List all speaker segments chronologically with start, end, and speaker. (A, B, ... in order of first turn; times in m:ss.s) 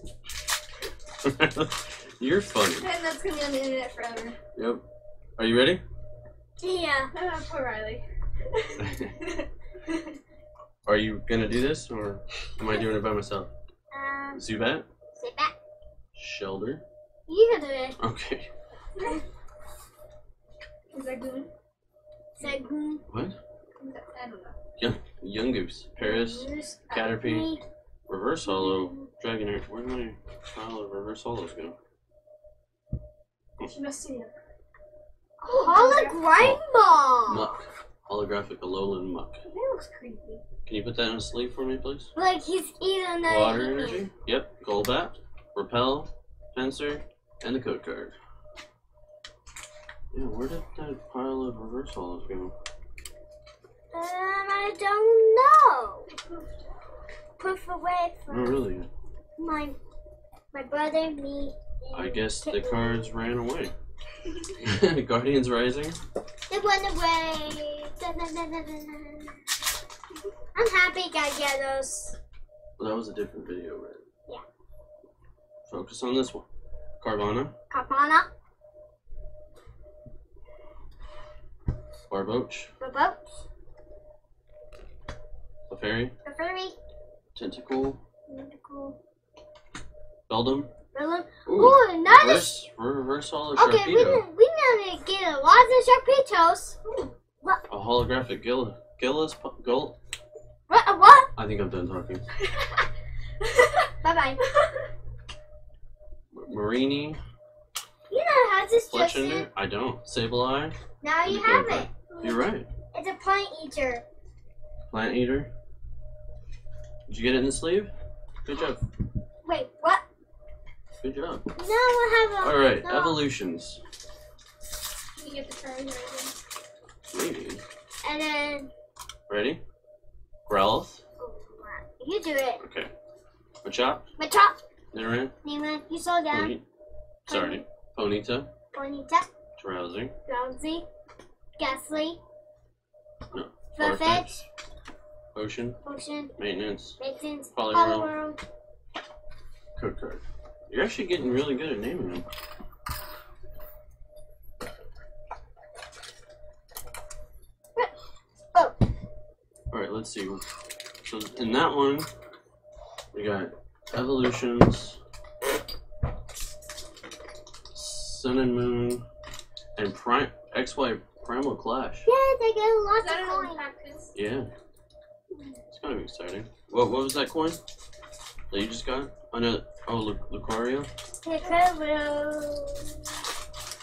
0:01.2-0:02.9 A
0:02.8-0:04.4 B
0:04.5-0:04.8 A
0:05.4-0:05.8 A
0:06.6-0:07.1 C
0:07.1-0:09.4 B
0:08.8-0:09.1 A
0:10.8-0:13.5 A
0:13.9-0:14.4 C
0:14.4-0:14.8 A
0:15.2-0:15.5 C
0:16.1-0:16.8 A
0:17.3-0:18.0 C
0:18.0-0:18.5 A
0:20.9-0:21.5 B
0:22.4-0:23.0 C
0:23.1-0:23.4 A
0:23.8-0:24.5 B
0:24.8-0:27.5 A
0:26.0-0:27.6 C
0:26.9-0:27.2 B
0:28.1-0:31.7 A
0:28.4-0:29.1 C
0:33.6-0:34.4 B
0:35.4-0:37.5 C
0:35.5-0:36.3 B
0:37.3-0:39.4 A
0:39.4-0:40.4 B
0:40.6-0:42.1 A
0:42.2-0:44.0 C
0:43.2-0:48.1 A
0:50.1-0:52.5 A
0:53.9-0:56.1 C
0:57.4-0:58.6 C
0:58.3-0:58.9 A
0:59.4-0:59.8 C
1:00.5-1:03.1 C
1:01.9-1:03.7 A
1:04.6-1:06.0 A
1:06.5-1:09.4 C
1:10.5-1:12.2 C
1:12.8-1:14.0 A
1:15.7-1:16.4 A
1:17.0-1:17.5 A
1:17.7-1:18.3 C
1:22.1-1:22.7 A
1:22.8-1:23.4 C
1:25.7-1:26.1 A
1:26.2-1:26.8 C
1:27.3-1:28.0 A
1:28.3-1:29.0 C
1:30.3-1:30.7 A
1:30.9-1:32.6 C
1:31.4-1:34.2 A
1:33.6-1:37.6 C
1:37.7-1:39.9 A
1:40.7-1:41.3 C
1:41.4-1:42.2 A
1:43.4-1:43.9 B
1:44.0-1:44.4 C
1:46.3-1:47.2 A
1:48.1-1:49.5 C
1:48.9-1:52.7 A
1:51.0-1:51.9 C
1:52.9-1:54.0 C
1:54.9-1:55.5 A
1:57.1-1:57.9 A
1:58.4-1:58.8 A
1:59.4-2:00.0 C
2:01.0-2:01.4 A
2:01.6-2:03.2 C
2:02.4-2:03.8 A
2:05.2-2:06.3 B
2:07.1-2:07.6 A
2:08.0-2:08.7 C
2:09.3-2:09.6 A
2:10.4-2:11.0 A
2:11.2-2:12.6 C
2:12.6-2:12.9 A
2:13.6-2:14.0 A
2:14.2-2:14.6 C
2:14.9-2:15.3 A
2:15.4-2:16.5 C
2:16.3-2:16.6 A
2:17.3-2:17.6 C
2:17.3-2:18.5 A
2:18.7-2:19.2 C
2:19.6-2:20.1 A
2:20.3-2:20.8 C
2:21.6-2:22.2 C
2:23.3-2:24.4 A
2:23.7-2:24.4 C
2:25.3-2:25.8 A
2:25.8-2:26.3 C
2:26.4-2:27.0 A
2:27.0-2:28.4 C
2:27.5-2:28.1 A
2:29.8-2:32.2 A
2:39.7-2:40.4 A
2:41.0-2:42.1 A
2:43.1-2:45.0 A
2:47.7-2:49.0 A
2:49.8-2:52.1 A
2:52.0-2:53.6 C
2:53.0-2:54.1 B
2:54.1-2:54.5 A
2:55.7-2:57.6 A
2:58.5-3:00.9 A
3:01.2-3:03.0 C